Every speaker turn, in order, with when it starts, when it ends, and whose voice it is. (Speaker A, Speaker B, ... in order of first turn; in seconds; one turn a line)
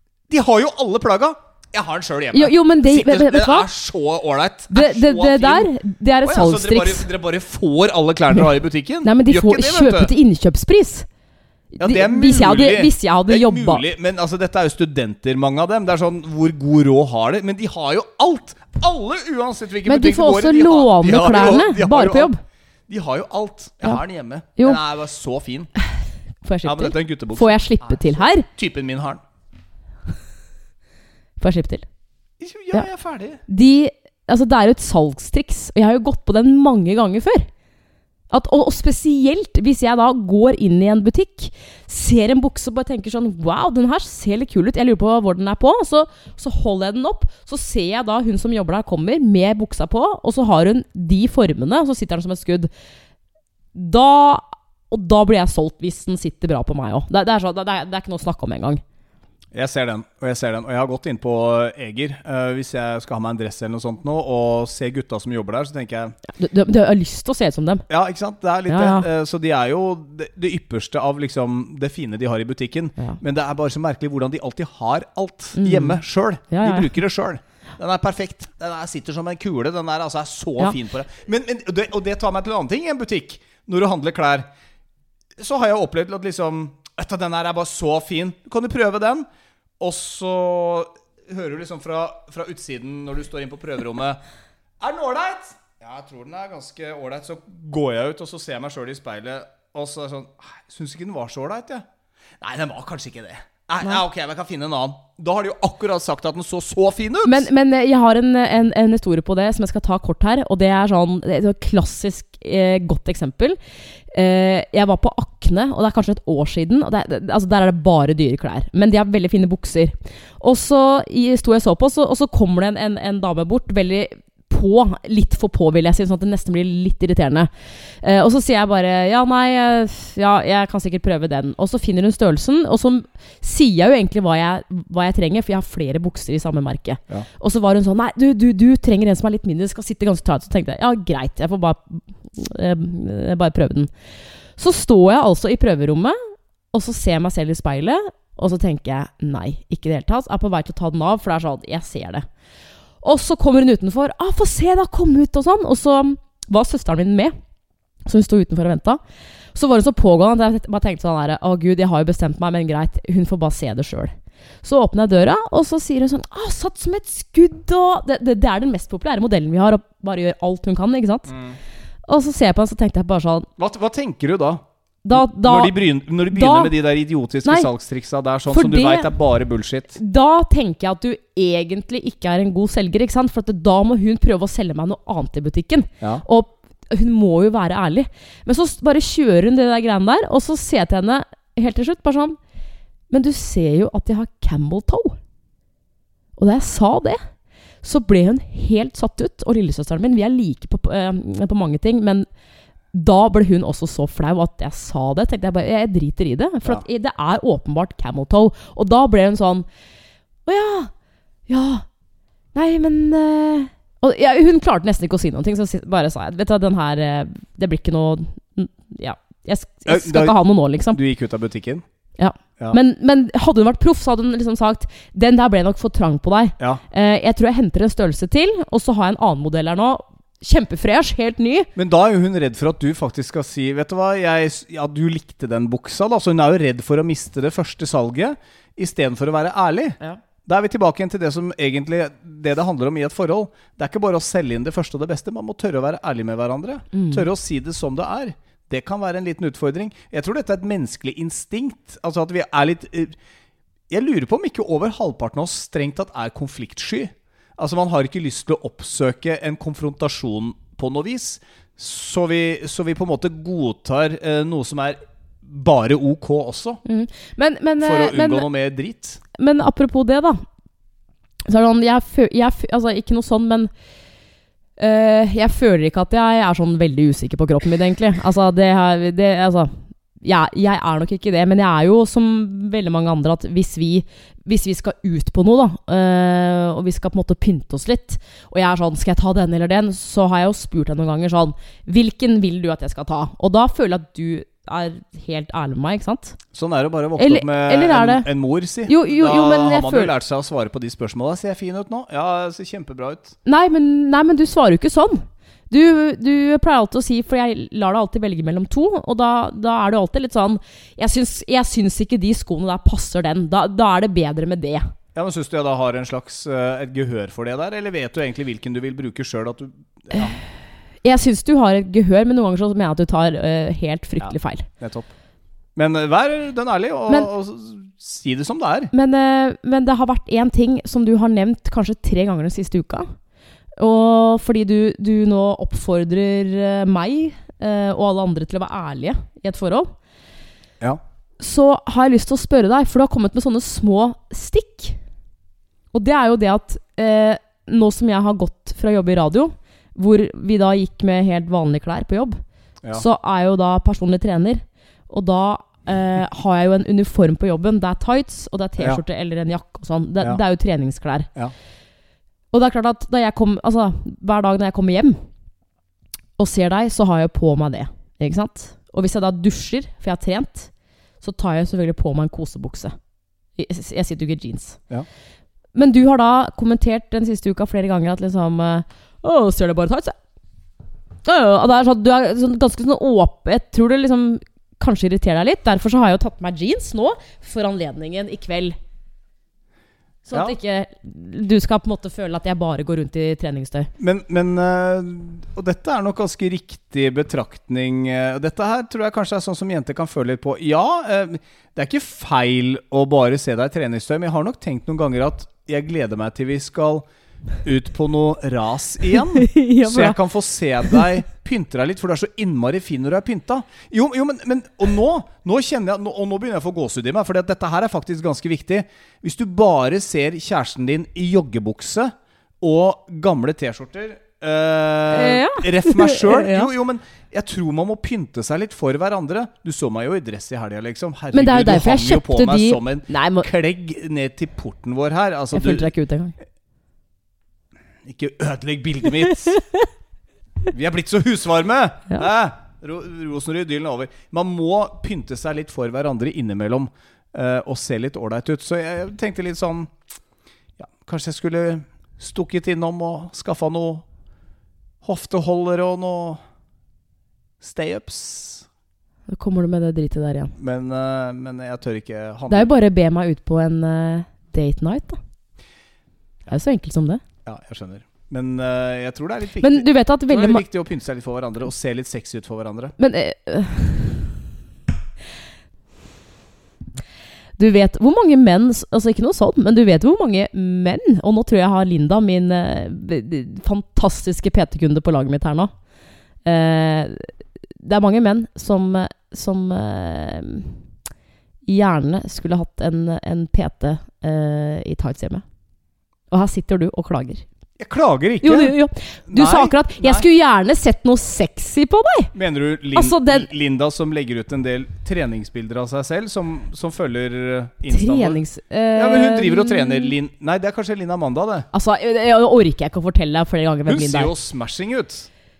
Speaker A: 0.3-5.7
Speaker B: 2.3-3.7
Speaker B: 4.7-7.1
Speaker A: 6.2-10.1
Speaker B: 9.0-11.1
Speaker B: 11.8-13.8
Speaker A: 11.8-22.3
Speaker B: 19.9-22.4
Speaker A: 22.9-25.7
Speaker B: 26.4-28.5
Speaker A: 26.6-29.2
Speaker B: 31.4-31.9
Speaker A: 32.4-33.4
Speaker B: 33.5-37.5
Speaker B: 38.3-52.7
Speaker B: 53.7-58.8
Speaker A: 59.5-66.2
Speaker B: 66.3-67.8
Speaker A: 67.9-84.5
Speaker B: 68.7-69.0
Speaker B: 75.6-76.9
Speaker A: 85.4-89.2
Speaker A: 89.8-94.2
Speaker A: 94.8-101.8
Speaker A: 102.4-107.5
Speaker B: 107.2-113.6
Speaker B: 114.1-143.9
Speaker B: 144.6-146.2
Speaker B: 146.7-152.2
Speaker B: 153.0-157.3
Speaker B: 158.1-159.0
Speaker B: 159.5-164.1
Speaker B: 164.6-171.3
Speaker A: 171.3-171.6
Speaker B: 172.1-173.5
Speaker A: 173.6-180.0
Speaker B: 175.0-175.7
Speaker B: 176.3-176.7
Speaker B: 177.4-177.7
Speaker B: 178.5-179.1
Speaker B: 179.9-192.4
Speaker B: 193.1-195.2
Speaker B: 196.4-197.2
Speaker B: 197.8-202.3
Speaker B: 202.9-209.7
Speaker B: 210.4-210.9
Speaker B: 211.5-211.8
Speaker B: 212.5-221.0
Speaker A: 219.9-220.3
Speaker A: 220.9-221.8
Speaker B: 222.2-231.7
Speaker A: 231.8-253.2
Speaker B: 246.9-247.2
Speaker A: 253.9-266.8
Speaker B: 266.9-268.5
Speaker A: 267.8-269.2
Speaker B: 269.3-270.4
Speaker B: 271.5-273.7
Speaker B: 274.8-296.4
Speaker A: 296.5-303.3
Speaker B: 297.2-298.2
Speaker B: 298.9-300.1
Speaker B: 303.4-314.9
Speaker A: 315.1-320.4
Speaker B: 321.0-324.7
Speaker A: 324.2-325.1
Speaker A: 325.8-328.9
Speaker B: 328.9-333.1
Speaker B: 333.8-339.9
Speaker B: 341.4-345.0
Speaker B: 345.9-352.4
Speaker B: 352.9-361.3
Speaker B: 362.5-365.2
Speaker B: 366.4-370.7
Speaker B: 371.2-372.9
Speaker B: 373.6-374.8
Speaker B: 375.7-380.1
Speaker B: 381.2-388.8
Speaker B: 390.3-393.9
Speaker A: 394.0-407.0
Speaker A: 407.6-435.9
Speaker B: 409.4-410.2
Speaker B: 425.1-426.7
Speaker B: 431.3-433.5
Speaker B: 435.5-436.3
Speaker A: 438.0-439.6
Speaker B: 439.3-439.9
Speaker A: 440.7-449.9
Speaker A: 450.8-454.0
Speaker A: 455.0-456.4
Speaker A: 457.6-458.6
Speaker B: 459.3-460.5
Speaker A: 460.6-462.7
Speaker B: 462.5-465.2
Speaker B: 466.5-467.2
Speaker A: 467.4-472.9
Speaker B: 469.6-470.6
Speaker B: 473.0-474.3
Speaker B: 477.6-485.7
Speaker B: 486.4-487.3
Speaker B: 487.8-490.8
Speaker B: 491.6-495.4
Speaker B: 496.3-497.4
Speaker A: 497.8-498.7
Speaker B: 498.4-502.3
Speaker A: 499.3-500.2
Speaker A: 502.3-508.4
Speaker B: 502.9-503.5
Speaker B: 507.9-510.1
Speaker A: 508.9-511.7
Speaker B: 511.7-514.3
Speaker A: 513.9-515.3